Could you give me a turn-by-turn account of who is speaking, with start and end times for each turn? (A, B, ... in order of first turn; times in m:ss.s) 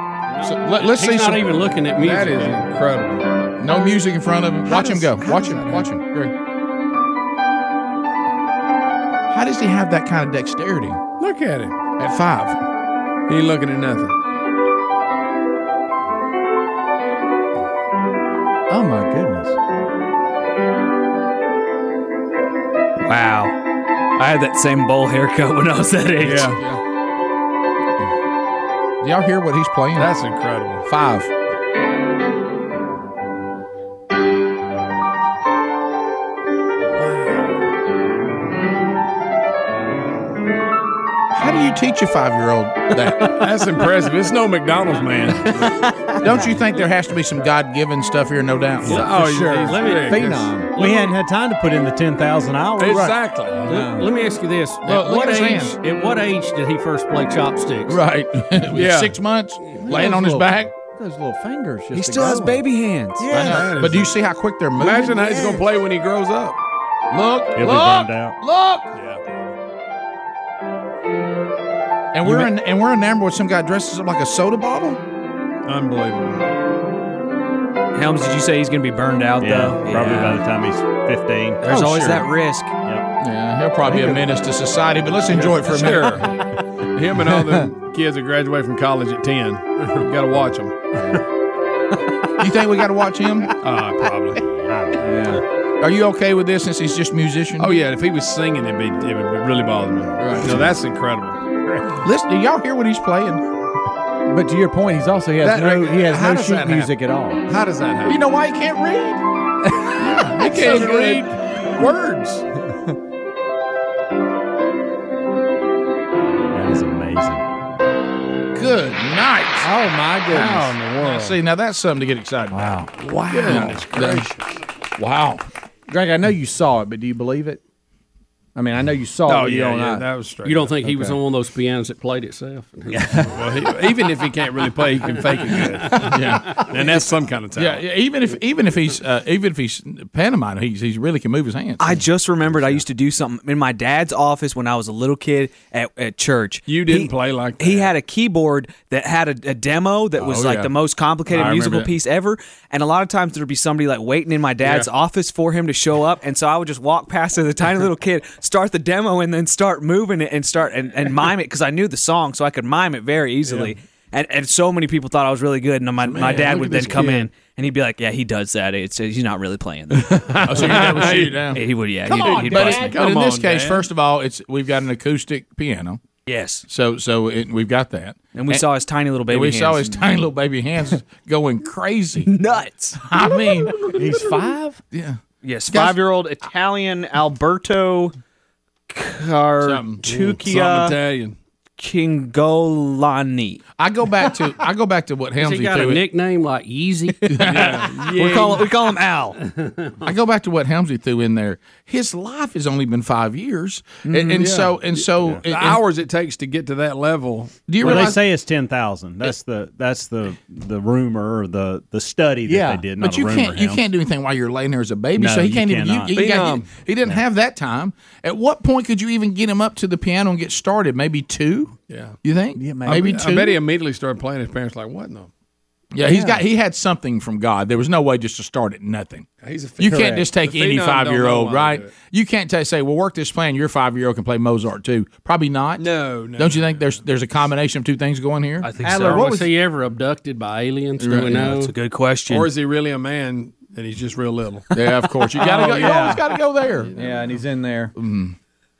0:00.4-0:01.5 A
0:00.4-0:02.6 B
0:02.0-0:03.2 C
0:03.6-0:06.3 A
0:04.6-0:05.9 D
0:09.3-0:11.0 A
0:11.2-0:11.8 C
0:12.0-0:12.6 A
0:13.3-0:14.2 C
0:18.7-0:19.6 D
0:23.0-0:23.5 E
0:24.2-0:26.6 E
0:26.2-0:26.6 C
0:29.0-0:30.1 A
0:29.9-0:30.9 C
0:30.8-0:31.3 A
0:36.9-0:37.6 C
0:41.3-0:43.4 A
0:43.4-0:45.8 C
0:46.2-0:49.1 A
0:48.8-0:50.6 C
0:48.8-0:51.1 B
0:49.0-0:50.8 D
0:50.7-0:53.1 F
0:52.8-0:53.8 C
0:52.8-0:54.1 D
0:53.6-0:58.0 B
0:54.8-0:55.8 A
0:57.9-1:00.7 A
0:58.7-0:59.2 C
0:59.8-1:02.6 D
1:01.9-1:03.4 E
1:03.2-1:03.6 D
1:03.3-1:05.1 A
1:03.3-1:04.2 C
1:04.7-1:06.6 C
1:07.1-1:08.9 A
1:07.5-1:08.4 F
1:08.9-1:09.2 C
1:12.1-1:15.0 A
1:15.6-1:16.4 C
1:17.9-1:20.4 E
1:19.4-1:22.2 F
1:21.6-1:22.7 E
1:23.2-1:26.3 A
1:23.9-1:24.2 D
1:25.3-1:26.4 C
1:26.9-1:30.8 C
1:32.4-1:33.6 A
1:33.6-1:34.4 C
1:35.0-1:35.4 D
1:35.8-1:37.7 A
1:37.6-1:41.4 C
1:40.2-1:40.7 A
1:42.0-1:43.4 A
1:44.3-1:47.4 D
1:45.4-1:46.9 C
1:47.4-1:48.2 C
1:48.0-1:49.2 A
1:49.8-1:51.2 D
1:50.0-1:52.4 C
1:50.0-1:52.1 A
1:56.5-1:57.4 F
1:58.5-1:59.7 A
1:59.6-2:01.3 D
2:00.3-2:02.8 A
2:00.4-2:01.4 C
2:02.5-2:02.9 D
2:03.0-2:04.4 C
2:03.4-2:04.3 A
2:03.4-2:03.7 D
2:05.0-2:05.4 A
2:05.9-2:07.6 D
2:08.5-2:10.1 D
2:09.2-2:10.9 C
2:10.4-2:13.5 B
2:10.8-2:11.1 D
2:13.3-2:17.9 C
2:15.5-2:16.6 B
2:15.9-2:16.9 A
2:17.5-2:22.0 A
2:21.8-2:53.0 E
2:26.7-2:27.9 C
2:30.2-2:30.7 A
2:31.3-2:31.9 A
2:34.6-2:34.9 C
2:43.4-2:43.7 C
2:46.0-2:47.3 C
2:49.9-2:51.5 C
2:50.5-2:51.6 A
2:52.1-2:53.9 C
2:52.2-2:56.0 A
2:56.2-2:56.7 E
2:56.7-2:58.6 A
2:58.3-3:00.0 E
2:59.3-3:02.3 A
3:02.2-3:03.1 E
3:03.0-3:03.9 A
3:03.8-3:04.8 D
3:04.9-3:06.0 A
3:05.4-3:08.1 E
3:08.9-3:11.0 E
3:09.6-3:10.0 A
3:10.0-3:11.4 C
3:11.8-3:13.6 E
3:13.8-3:16.0 A
3:15.4-3:17.4 B
3:17.2-3:19.4 E
3:17.3-3:17.9 A
3:17.5-3:18.7 C
3:19.6-3:19.9 B
3:20.0-3:25.8 A
3:24.0-3:24.6 D
3:24.3-3:28.1 C
3:27.7-3:28.2 A
3:27.8-3:33.8 F
3:32.4-3:32.8 D
3:33.0-3:43.6 A
3:35.2-3:36.2 F
3:36.1-3:36.9 C
3:41.9-3:42.2 C
3:42.6-3:43.2 D
3:42.8-3:45.3 C
3:45.9-3:49.3 A
3:46.0-3:46.4 D
3:49.4-3:51.9 C
3:49.8-3:58.7 A
3:49.9-3:50.3 D
3:55.8-3:56.8 C
3:58.6-3:59.3 E
3:58.8-3:59.5 D
3:58.9-4:01.7 B
4:01.0-4:01.5 A
4:01.4-4:02.5 E
4:02.3-4:04.7 C
4:04.7-4:06.9 A
4:05.4-4:06.2 C
4:05.5-4:06.2 D
4:06.8-4:07.1 C
4:07.0-4:07.9 D
4:08.0-4:08.3 A